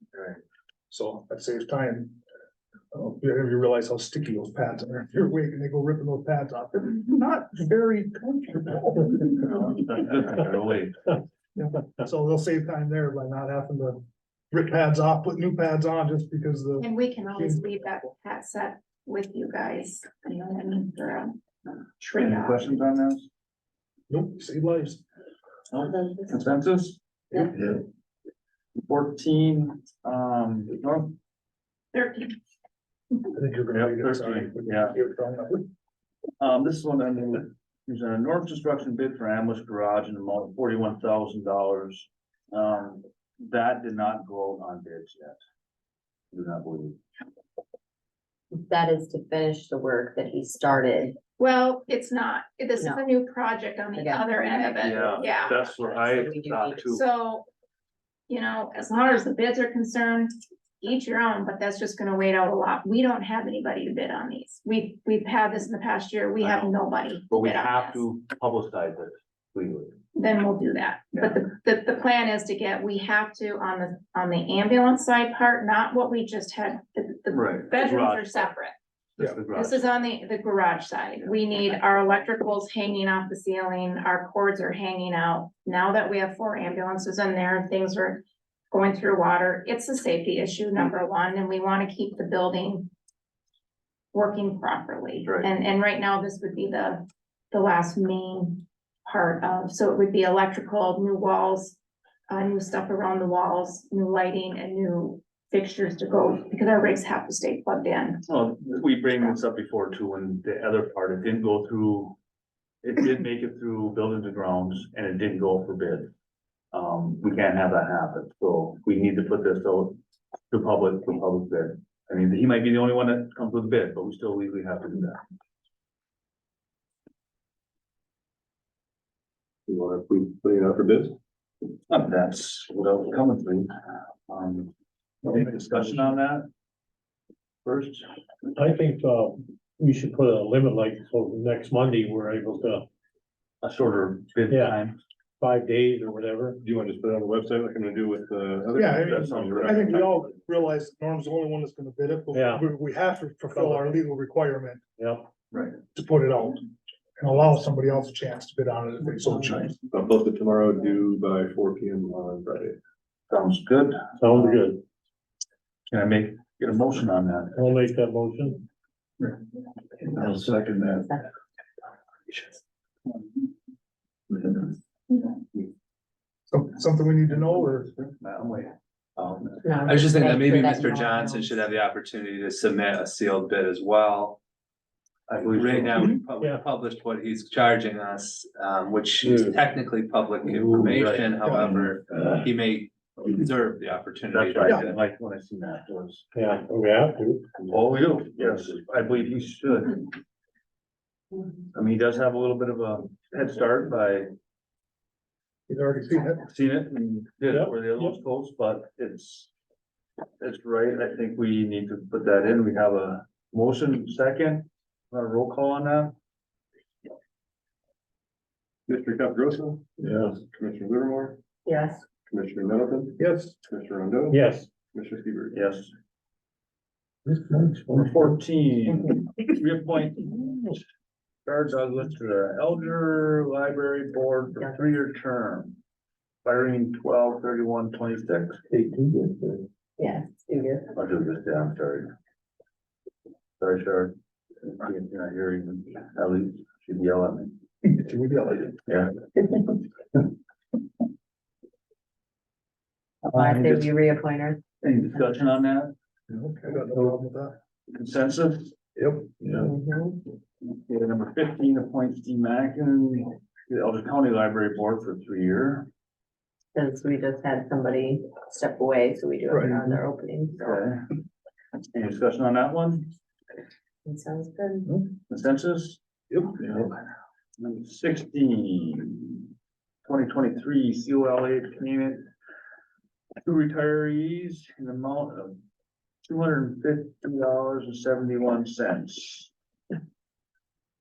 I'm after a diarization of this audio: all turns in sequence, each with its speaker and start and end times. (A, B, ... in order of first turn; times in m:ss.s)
0:00.9-0:02.1 A
0:02.9-0:09.9 A
0:09.6-0:10.9 B
0:11.6-0:14.0 A
0:14.5-0:17.8 A
0:16.8-0:21.3 C
0:22.0-0:22.8 C
0:22.2-0:23.3 B
0:24.1-0:25.0 A
0:25.7-0:27.5 B
0:25.8-0:26.4 D
0:28.8-0:31.2 B
0:31.9-0:32.3 C
0:33.3-0:35.6 A
0:33.7-0:35.0 B
0:36.4-0:45.4 B
0:46.3-0:47.0 B
0:48.5-0:51.2 D
0:51.4-0:55.7 C
0:52.8-0:53.0 D
0:53.9-0:56.9 D
0:54.8-0:57.0 B
0:56.8-0:57.4 C
0:58.3-1:08.0 C
1:06.4-1:10.0 B
1:10.1-1:18.7 C
1:11.1-1:11.4 B
1:17.3-1:18.5 B
1:19.2-1:19.9 B
1:19.5-1:32.9 C
1:34.1-1:41.8 C
1:35.2-1:35.5 B
1:42.3-1:48.2 C
1:48.3-1:52.2 B
1:52.8-1:56.1 B
1:56.7-2:00.0 B
2:00.5-2:05.2 B
2:09.7-2:11.2 E
2:11.9-2:13.7 B
2:14.3-2:14.7 B
2:15.2-2:16.4 B
2:15.3-2:16.2 A
2:17.6-2:18.0 B
2:18.6-2:22.9 F
2:23.6-2:25.0 B
2:24.5-2:24.8 F
2:25.4-2:26.6 F
2:26.6-2:30.1 E
2:28.7-2:34.8 A
2:28.9-2:30.0 B
2:32.3-2:32.7 F
2:33.5-2:34.0 F
2:35.0-2:35.3 F
2:35.9-2:36.6 A
2:37.2-2:39.8 A
2:39.9-2:42.8 E
2:43.3-2:44.6 B
2:44.2-2:44.8 F
2:45.9-2:47.6 B
2:47.5-2:48.6 F
2:50.5-2:50.8 B
2:50.9-2:51.2 D
2:56.5-2:57.9 A
2:58.2-3:00.2 B
2:59.6-3:01.6 D
2:59.9-3:04.4 G
3:05.3-3:06.1 B
3:05.4-3:15.0 G
3:06.3-3:06.6 F
3:09.2-3:09.6 F
3:11.4-3:11.9 A
3:14.3-3:16.2 B
3:16.3-3:17.5 F
3:17.7-3:20.0 B
3:21.7-3:24.3 B
3:25.7-3:26.4 A
3:26.5-3:29.5 B
3:27.5-3:28.2 F
3:30.4-3:36.1 B
3:38.9-3:41.4 E
3:41.6-3:42.0 D
3:42.3-3:45.6 E
3:43.2-3:43.5 A
3:44.3-3:44.7 F
3:45.5-3:45.9 B
3:47.2-3:48.3 F
3:47.9-3:50.4 B
3:50.2-3:50.8 F
3:51.4-3:55.8 B
3:56.4-3:58.6 B
3:58.7-3:59.6 F
4:00.0-4:00.9 D
4:00.9-4:02.1 B
4:03.6-4:07.6 B
4:07.8-4:08.8 A
4:08.9-4:09.1 B
4:13.3-4:15.5 D
4:13.3-4:13.9 B
4:14.8-4:15.9 B
4:16.3-4:17.5 A
4:17.9-4:18.8 B
4:19.0-4:19.4 A
4:19.6-4:20.2 D
4:20.6-4:25.9 B
4:26.7-4:30.8 D
4:29.5-4:30.0 A
4:30.6-4:31.0 B
4:31.9-4:33.1 B
4:34.0-4:34.9 D
4:35.1-4:36.0 B
4:36.3-4:36.7 A
4:37.6-4:39.5 B
4:40.0-4:42.2 B
4:43.4-4:45.6 B
4:46.2-4:49.5 B